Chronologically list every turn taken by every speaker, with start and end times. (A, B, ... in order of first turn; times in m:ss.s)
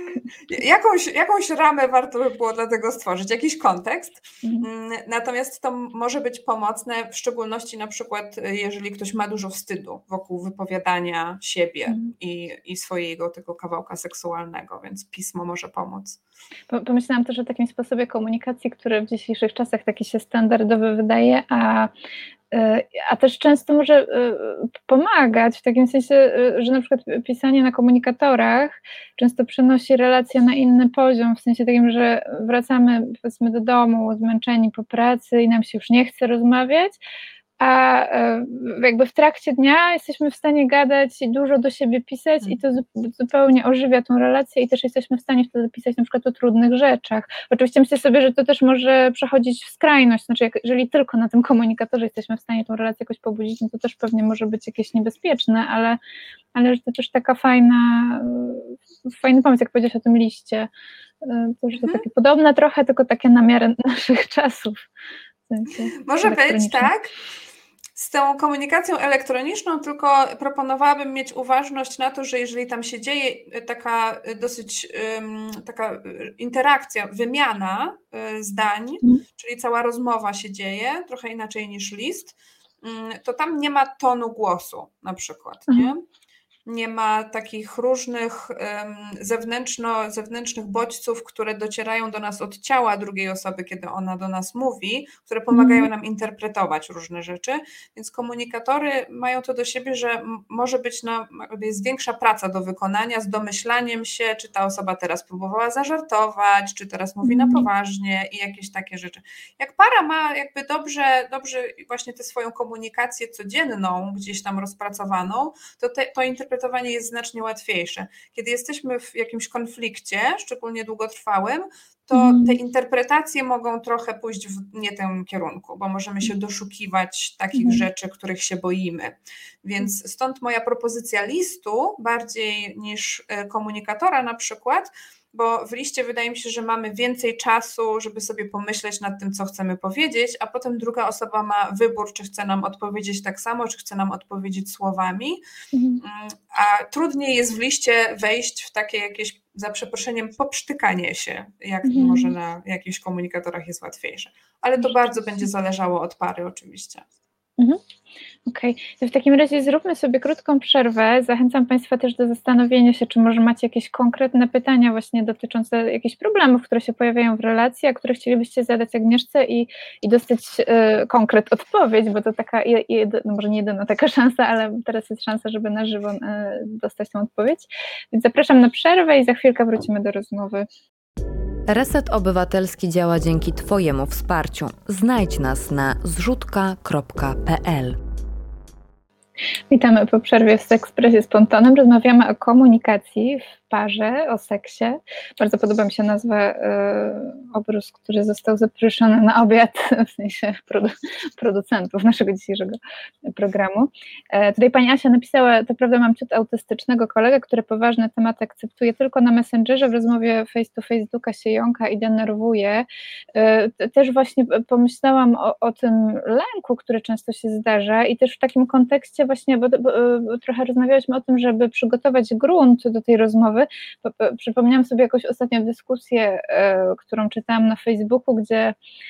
0:00.5-0:16.2 A
0:16.7-0:21.9 B
0:22.5-0:37.0 B
0:37.6-0:56.0 B
0:56.5-1:00.7 B
1:01.2-1:04.8 B
1:01.8-1:02.0 A
1:05.5-1:06.9 B
1:05.9-1:07.1 A
1:07.9-1:26.0 A
1:26.6-2:25.4 A
1:35.5-1:35.9 B
1:47.2-1:47.6 B
2:02.1-2:02.6 B
2:07.5-2:07.8 B
2:25.7-2:26.0 B
2:26.0-2:37.1 A
2:31.8-2:32.3 B
2:38.5-3:00.7 B
3:01.7-3:08.0 C
3:09.7-3:48.7 B